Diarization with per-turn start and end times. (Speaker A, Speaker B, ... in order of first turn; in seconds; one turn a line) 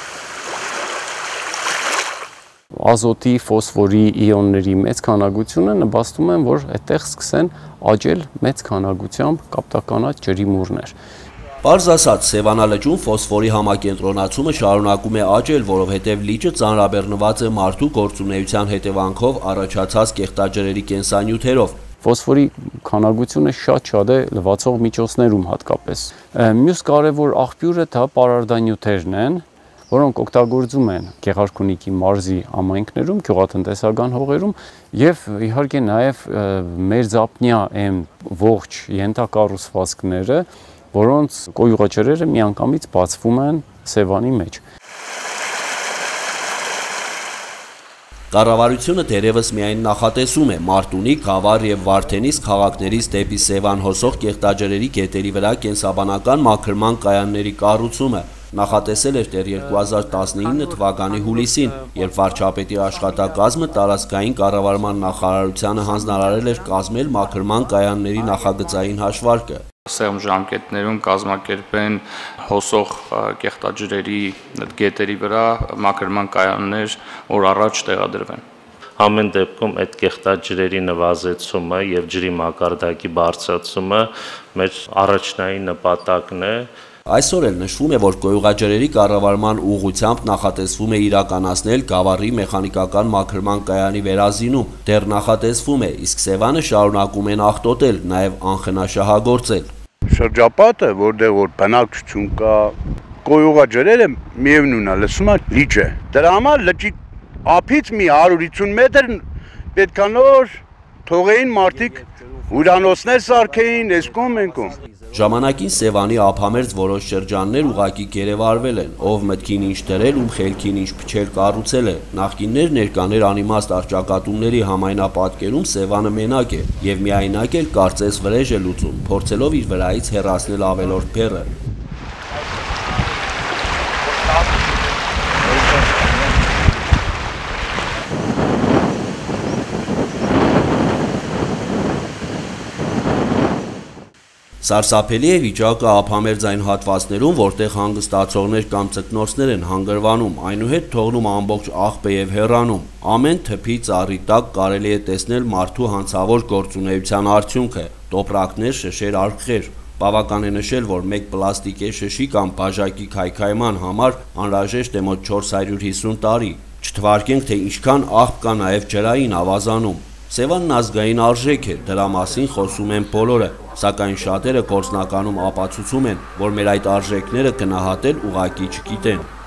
Speaker A: 2.8-10.9
Speaker B: 11.6-21.8
Speaker A: 22.0-44.6
Speaker B: 48.3-69.6
Speaker C: 69.9-78.4
Speaker D: 79.0-86.7
Speaker B: 87.1-99.7
Speaker E: 100.1-109.2
Speaker E: 109.7-114.8
Speaker B: 115.1-131.5
Speaker B: 144.6-179.3